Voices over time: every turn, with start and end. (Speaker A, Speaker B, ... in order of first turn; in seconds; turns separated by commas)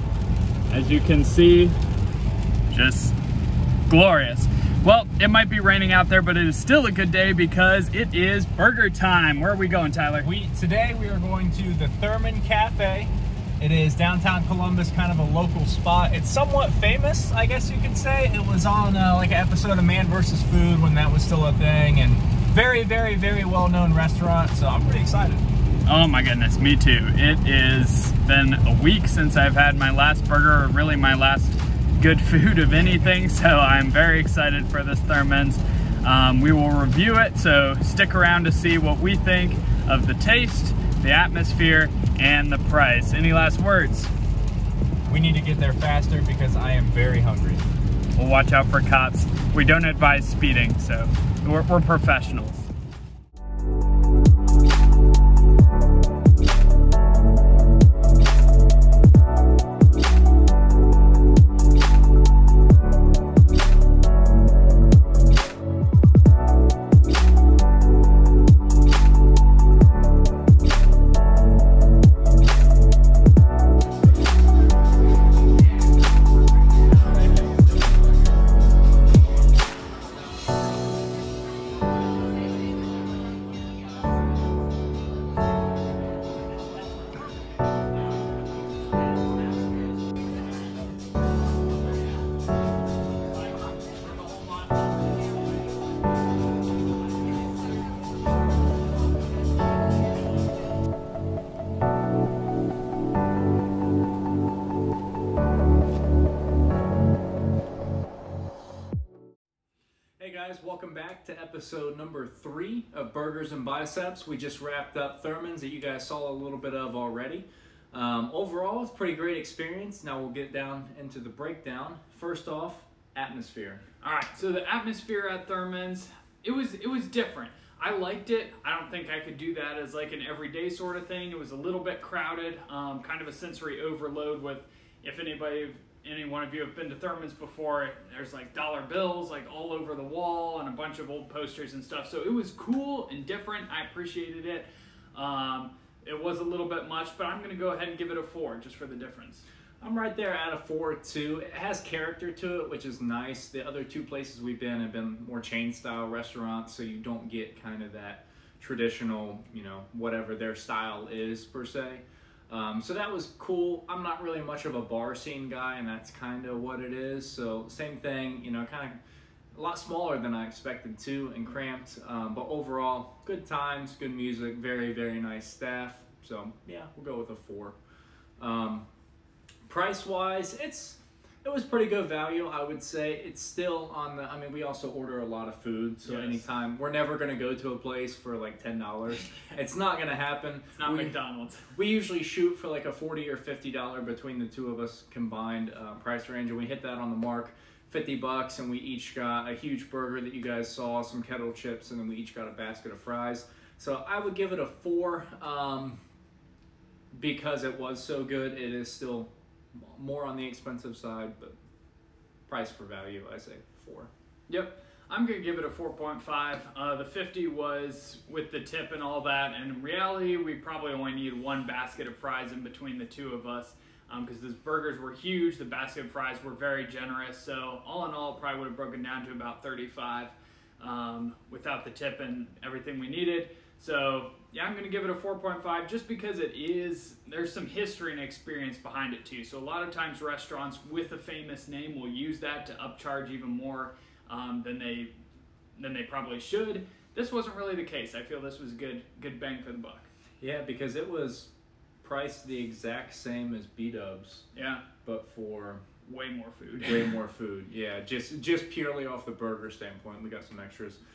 Speaker A: 0.7-1.7, Speaker A: 2.7-3.1, Speaker A: 3.9-10.3, Speaker B: 10.2-25.5, Speaker A: 25.9-44.1, Speaker B: 45.1-47.6, Speaker A: 48.2-52.7, Speaker B: 110.2-123.8, Speaker A: 124.0-149.4, Speaker B: 149.8-169.0, Speaker B: 169.5-177.8, Speaker B: 178.4-178.8, Speaker B: 179.7-191.2, Speaker A: 186.0-186.4, Speaker A: 190.8-191.7, Speaker B: 191.7-206.0, Speaker B: 207.2-211.6, Speaker B: 212.5-214.1, Speaker A: 214.5-245.1, Speaker A: 245.8-250.1, Speaker B: 250.4-251.5, Speaker B: 252.0-254.4, Speaker A: 254.5-254.9, Speaker B: 255.0-255.8, Speaker A: 256.0-257.2, Speaker B: 256.8-261.0